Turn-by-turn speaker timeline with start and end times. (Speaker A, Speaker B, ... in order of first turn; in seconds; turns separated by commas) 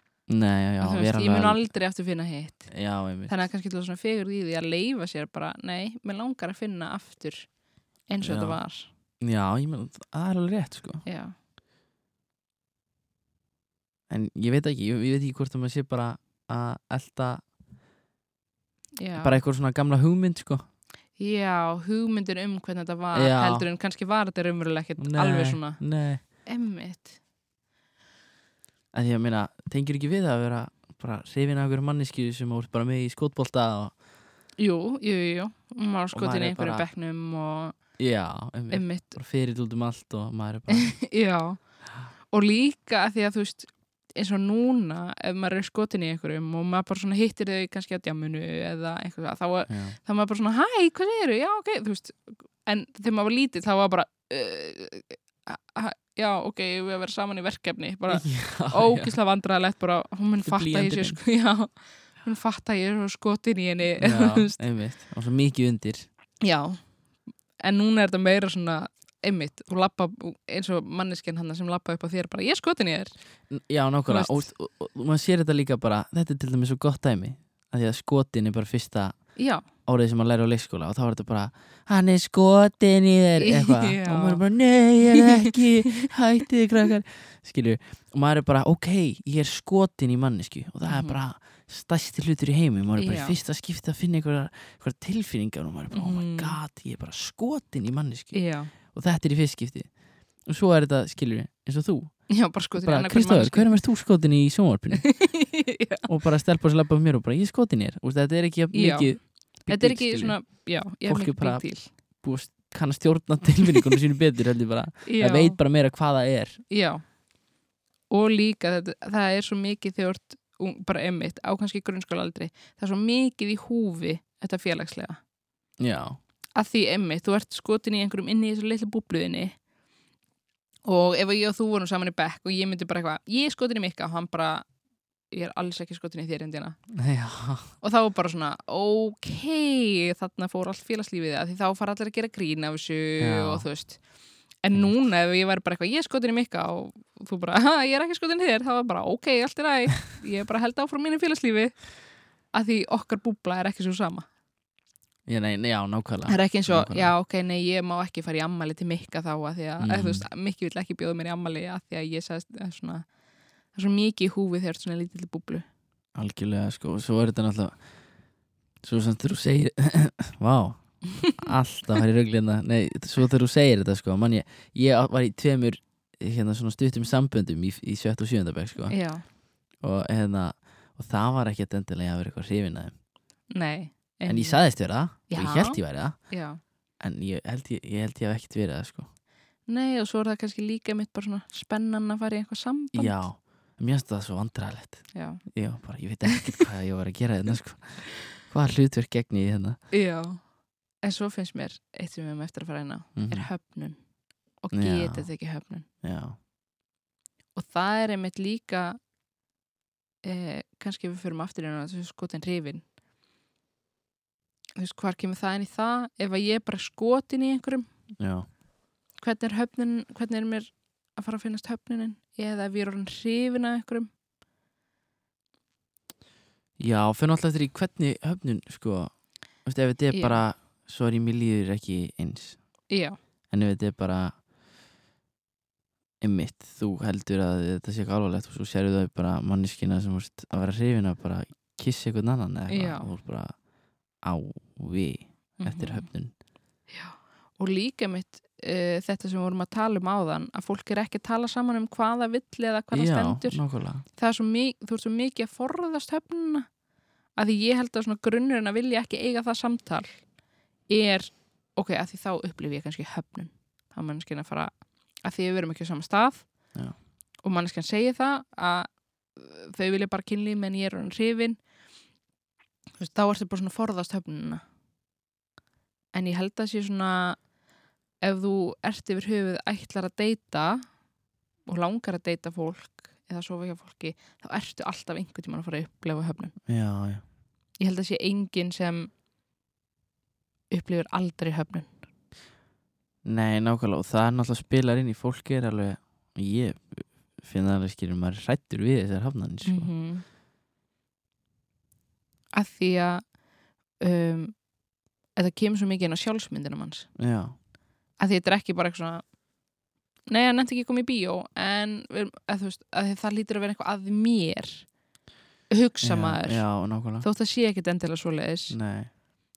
Speaker A: 0.3-1.6, Speaker B: 0.8-2.7, Speaker A: 2.7-3.3, Speaker B: 3.3-7.5, Speaker B: 8.1-8.9, Speaker A: 8.2-8.6, Speaker A: 9.2-11.0, Speaker B: 11.1-11.3, Speaker A: 14.1-17.4, Speaker B: 19.0-19.4, Speaker A: 19.2-20.6, Speaker B: 21.2-25.8, Speaker A: 23.1-23.6, Speaker A: 25.0-26.2, Speaker B: 26.4-27.2, Speaker A: 28.9-33.9, Speaker B: 34.6-37.8, Speaker A: 36.1-36.9, Speaker A: 38.0-40.9, Speaker B: 38.7-39.2, Speaker B: 40.7-41.6, Speaker B: 42.3-64.6, Speaker A: 49.7-50.0, Speaker A: 58.1-59.1, Speaker A: 60.4-61.2, Speaker A: 64.0-66.1, Speaker B: 66.4-66.8, Speaker B: 67.6-73.1, Speaker A: 73.5-79.2, Speaker B: 74.1-74.4, Speaker B: 79.4-79.6, Speaker A: 79.9-99.9, Speaker B: 83.4-84.4, Speaker B: 85.1-86.1, Speaker B: 90.9-91.2, Speaker B: 93.0-93.4, Speaker B: 95.9-96.6, Speaker B: 98.3-98.7, Speaker A: 100.5-102.2, Speaker B: 102.3-103.7, Speaker A: 102.8-105.1, Speaker B: 105.0-106.1, Speaker A: 106.1-110.4, Speaker B: 108.7-111.9, Speaker A: 111.0-111.7, Speaker A: 112.2-116.6, Speaker B: 115.1-115.6, Speaker B: 116.7-117.0, Speaker B: 118.1-125.2, Speaker A: 125.8-126.2, Speaker B: 126.6-129.6, Speaker B: 130.8-134.7, Speaker B: 135.3-136.8, Speaker A: 136.9-137.7, Speaker B: 137.8-144.0, Speaker A: 143.2-143.7, Speaker B: 144.6-151.8, Speaker B: 152.5-154.3, Speaker A: 155.3-157.1, Speaker B: 156.3-163.1, Speaker A: 159.8-160.2, Speaker B: 163.7-165.7, Speaker A: 166.2-167.8, Speaker A: 168.8-178.9, Speaker B: 178.9-179.2, Speaker A: 179.8-182.9, Speaker B: 183.5-184.6, Speaker A: 184.2-186.2, Speaker B: 185.3-185.8, Speaker B: 186.3-186.6, Speaker A: 187.0-189.1, Speaker B: 189.7-193.2, Speaker A: 192.9-199.8, Speaker B: 195.1-195.4, Speaker B: 199.9-200.4, Speaker B: 201.0-204.0, Speaker A: 203.2-203.5, Speaker B: 204.6-205.9, Speaker A: 204.7-205.3, Speaker A: 206.0-206.4, Speaker B: 207.6-209.0, Speaker B: 210.2-212.8, Speaker B: 214.8-217.9, Speaker A: 218.2-218.5, Speaker B: 219.2-224.1, Speaker A: 226.8-229.1, Speaker A: 229.6-232.6, Speaker B: 230.1-230.4, Speaker B: 232.9-233.2, Speaker A: 233.5-234.3, Speaker A: 236.2-243.5, Speaker B: 242.7-243.1, Speaker A: 244.2-246.3, Speaker B: 245.6-246.1, Speaker B: 246.9-253.6, Speaker A: 252.9-254.0, Speaker B: 254.2-256.7, Speaker B: 257.4-260.1, Speaker B: 260.9-264.7, Speaker B: 265.2-266.4, Speaker B: 267.4-271.6, Speaker B: 273.0-274.6, Speaker B: 276.1-277.4, Speaker B: 278.2-280.8, Speaker B: 281.6-286.5, Speaker A: 286.7-287.2, Speaker B: 287.8-289.1, Speaker B: 290.7-291.9, Speaker A: 293.2-299.9, Speaker B: 299.6-300.2, Speaker B: 302.5-303.2, Speaker B: 304.0-304.5, Speaker B: 305.4-307.1, Speaker A: 307.1-307.5, Speaker B: 308.2-309.2, Speaker B: 310.3-314.9, Speaker B: 315.7-316.6, Speaker A: 316.0-317.2, Speaker B: 317.2-318.8, Speaker A: 318.7-319.1